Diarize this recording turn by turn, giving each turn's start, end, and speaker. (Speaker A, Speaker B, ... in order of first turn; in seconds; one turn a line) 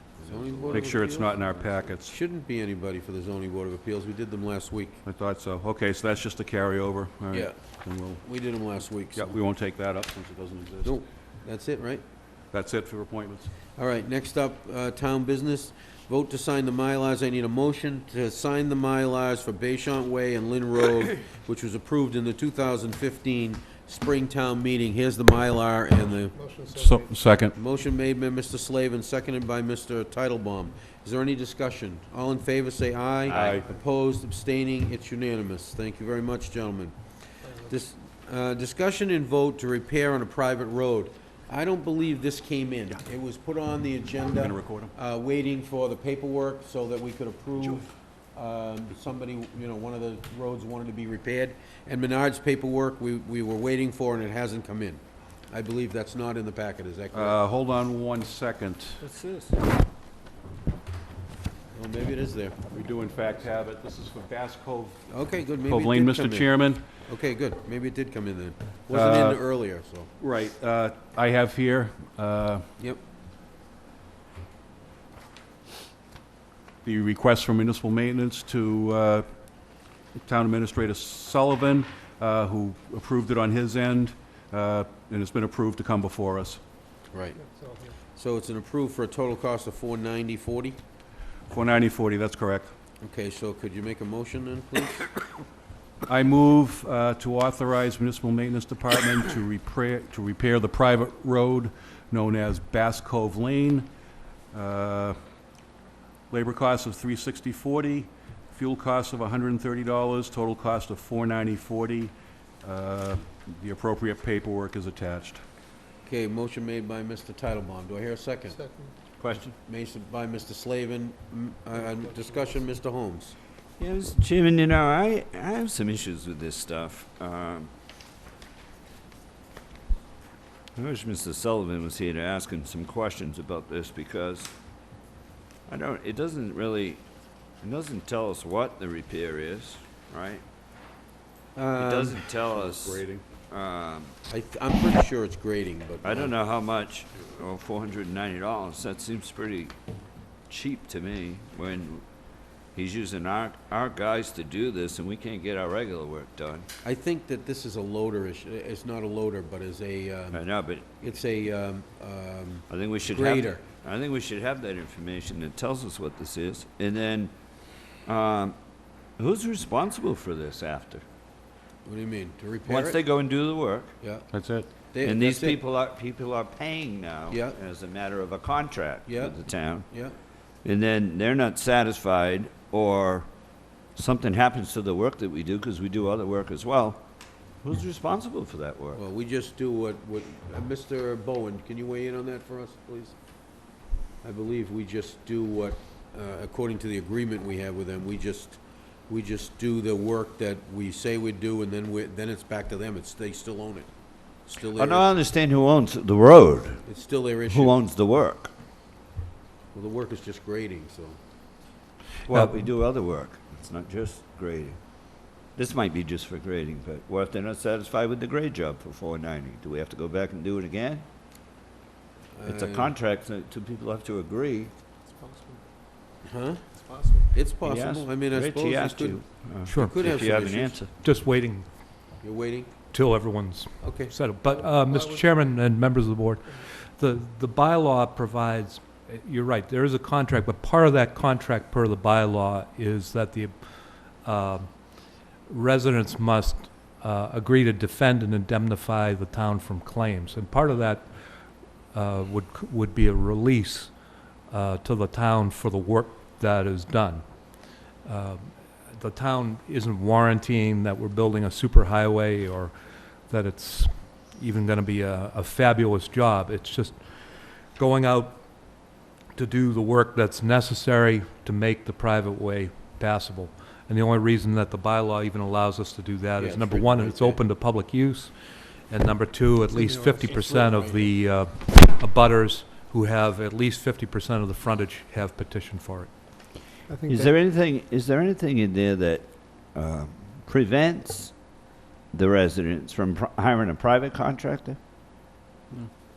Speaker A: 0.2-1.6
Speaker B: 0.2-5.0
Speaker C: 0.7-2.1
Speaker C: 5.0-8.2
Speaker B: 7.3-7.6
Speaker B: 8.2-9.4
Speaker C: 9.2-11.0
Speaker B: 10.8-12.0
Speaker C: 12.5-13.5
Speaker B: 13.8-26.4
Speaker D: 26.3-27.1
Speaker C: 26.7-27.6
Speaker B: 27.6-57.4
Speaker A: 33.3-33.6
Speaker C: 33.3-33.6
Speaker C: 44.3-44.9
Speaker C: 57.1-59.2
Speaker B: 61.7-62.6
Speaker C: 62.7-65.0
Speaker B: 65.1-66.5
Speaker C: 65.6-66.8
Speaker B: 67.1-70.1
Speaker C: 68.9-69.4
Speaker C: 70.2-72.7
Speaker C: 76.8-79.3
Speaker C: 80.2-86.6
Speaker B: 87.1-87.4
Speaker D: 87.4-88.0
Speaker B: 88.1-90.8
Speaker C: 91.5-92.7
Speaker B: 93.0-95.1
Speaker C: 96.1-103.9
Speaker C: 104.5-105.2
Speaker C: 106.3-115.4
Speaker B: 116.0-118.6
Speaker D: 118.5-118.9
Speaker A: 119.2-119.5
Speaker B: 119.6-123.4
Speaker D: 121.8-122.7
Speaker A: 123.8-127.7
Speaker A: 130.8-134.5
Speaker A: 135.7-137.0
Speaker A: 137.6-140.4
Speaker B: 141.6-142.2
Speaker A: 141.8-144.2
Speaker C: 142.4-143.2
Speaker B: 144.3-146.3
Speaker A: 146.0-149.7
Speaker A: 150.5-152.0
Speaker A: 152.8-156.7
Speaker B: 156.8-160.4
Speaker A: 160.3-160.9
Speaker B: 161.0-163.6
Speaker A: 162.7-167.3
Speaker A: 168.1-168.6
Speaker A: 169.2-171.0
Speaker B: 171.8-173.0
Speaker A: 172.7-173.9
Speaker C: 174.3-174.7
Speaker B: 174.9-175.6
Speaker A: 175.0-179.9
Speaker B: 177.3-177.6
Speaker B: 179.1-180.2
Speaker A: 180.6-183.3
Speaker A: 183.9-187.0
Speaker A: 187.6-189.0
Speaker B: 188.9-193.2
Speaker B: 194.2-203.9
Speaker B: 204.4-205.2
Speaker A: 204.7-206.8
Speaker B: 206.8-207.8
Speaker A: 207.5-208.5
Speaker B: 209.7-211.2
Speaker A: 212.3-221.1
Speaker E: 212.3-212.7
Speaker B: 222.3-222.9
Speaker A: 222.5-224.7
Speaker D: 225.1-225.6
Speaker B: 226.2-226.7
Speaker D: 226.8-227.4
Speaker B: 227.3-229.2
Speaker A: 227.6-230.9
Speaker E: 229.7-230.1
Speaker B: 229.7-230.8
Speaker E: 230.9-231.7
Speaker B: 232.2-232.7
Speaker E: 232.9-286.3
Speaker B: 233.8-234.2
Speaker D: 234.5-235.5
Speaker B: 276.4-277.4
Speaker B: 279.7-281.1
Speaker D: 279.8-280.4
Speaker D: 286.9-287.3
Speaker A: 287.1-291.4
Speaker A: 292.1-294.8